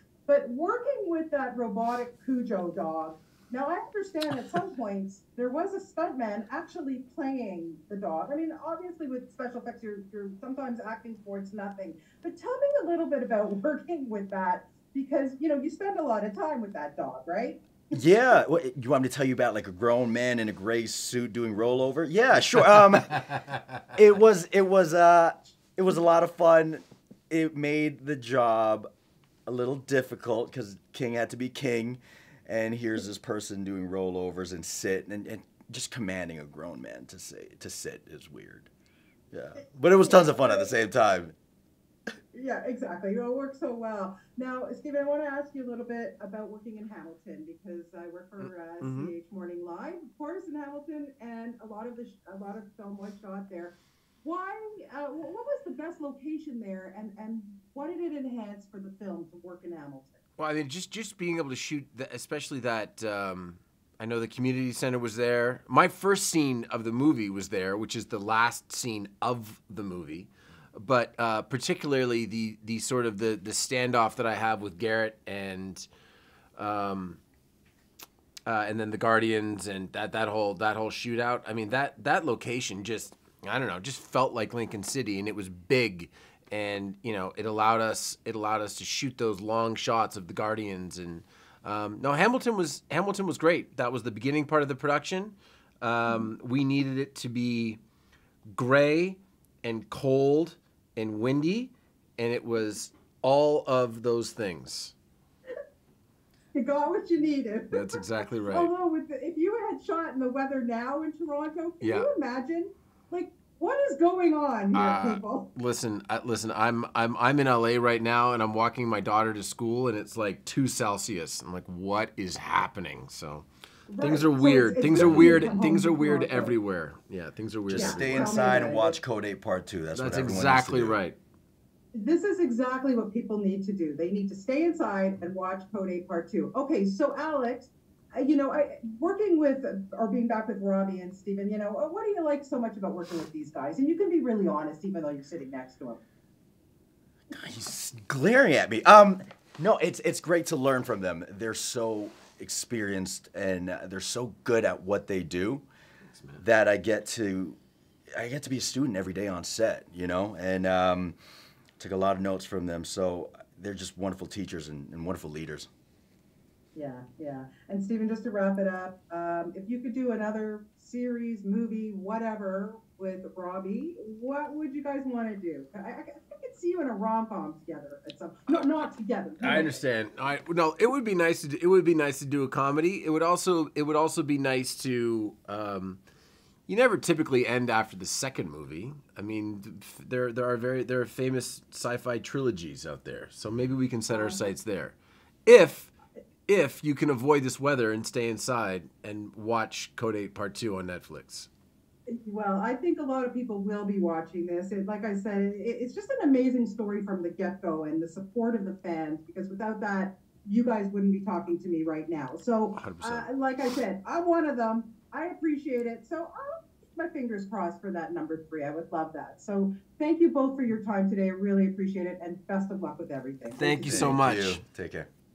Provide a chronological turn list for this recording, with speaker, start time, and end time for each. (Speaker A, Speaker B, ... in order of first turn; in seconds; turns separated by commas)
Speaker A: 0.3-17.6, Speaker B: 17.9-23.2, Speaker B: 23.9-28.9, Speaker B: 29.4-38.7, Speaker B: 39.3-41.3, Speaker A: 40.0-40.7, Speaker A: 42.3-60.2, Speaker C: 48.4-49.1, Speaker C: 60.4-75.9, Speaker C: 76.5-77.2, Speaker C: 78.5-97.8, Speaker C: 98.5-104.9, Speaker A: 106.5-115.5, Speaker C: 107.7-108.7, Speaker C: 111.8-112.1, Speaker C: 114.7-123.5, Speaker A: 123.9-126.5, Speaker C: 124.0-128.4, Speaker B: 124.9-125.5, Speaker B: 127.7-131.0, Speaker A: 127.7-129.0, Speaker C: 129.9-131.2, Speaker A: 131.9-146.0, Speaker B: 147.3-155.6, Speaker C: 156.1-156.4, Speaker B: 156.4-157.6, Speaker B: 158.2-161.2, Speaker B: 161.8-165.7, Speaker A: 166.7-179.8, Speaker C: 179.4-186.0, Speaker C: 186.7-195.9, Speaker A: 194.1-194.5, Speaker C: 196.5-201.5, Speaker A: 202.1-224.2, Speaker C: 212.7-213.3, Speaker C: 223.6-224.6, Speaker B: 223.8-225.1